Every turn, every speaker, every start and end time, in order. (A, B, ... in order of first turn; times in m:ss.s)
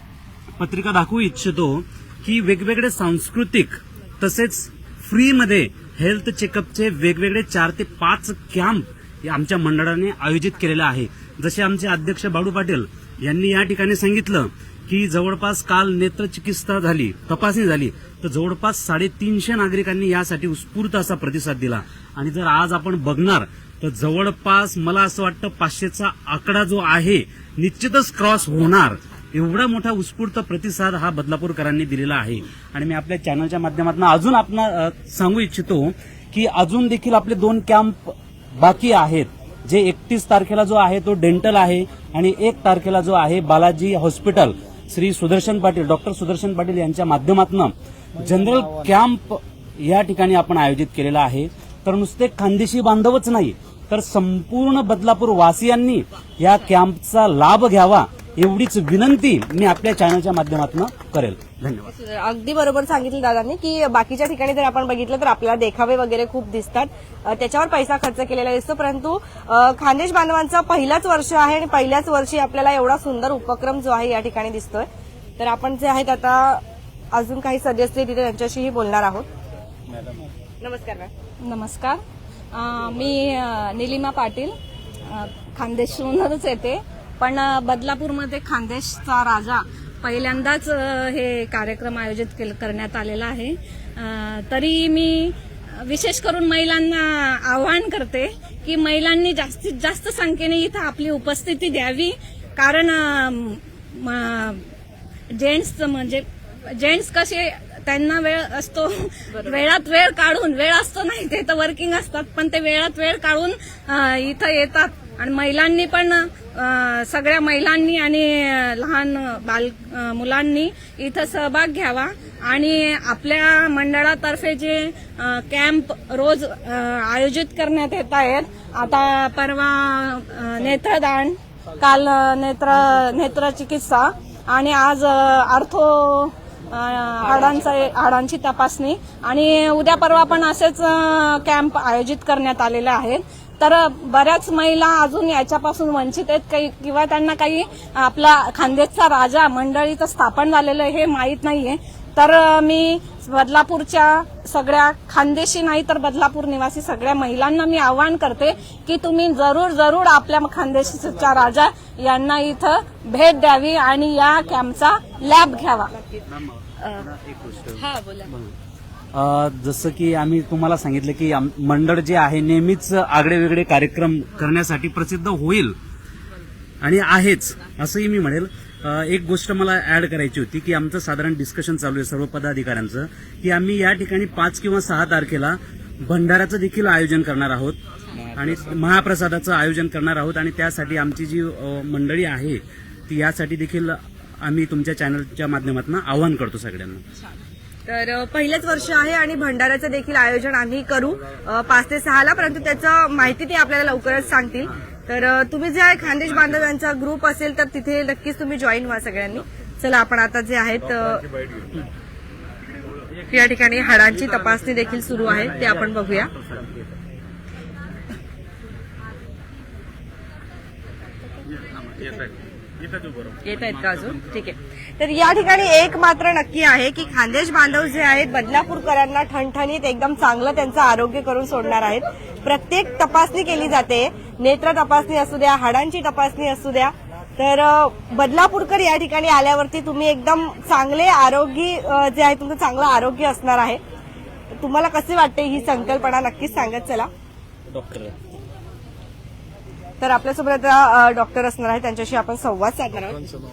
0:00.6-1:01.9 A
1:01.9-1:14.9 B
1:15.4-1:19.3 B
1:20.6-1:21.1 B
1:21.4-1:22.0 C
1:22.5-1:24.5 C
1:25.1-1:44.6 C
1:45.4-2:45.9 C
2:17.2-2:17.6 B
2:45.9-2:46.2 B
2:46.3-2:47.8 A
2:47.8-2:48.3 B
2:49.1-2:55.8 A
2:56.8-3:07.8 A
3:08.4-3:17.0 A
3:17.9-3:31.2 B
3:33.3-3:36.3 B
3:43.4-4:03.8 B
4:04.6-4:07.1 B
4:07.7-4:08.1 A
4:10.0-4:13.3 B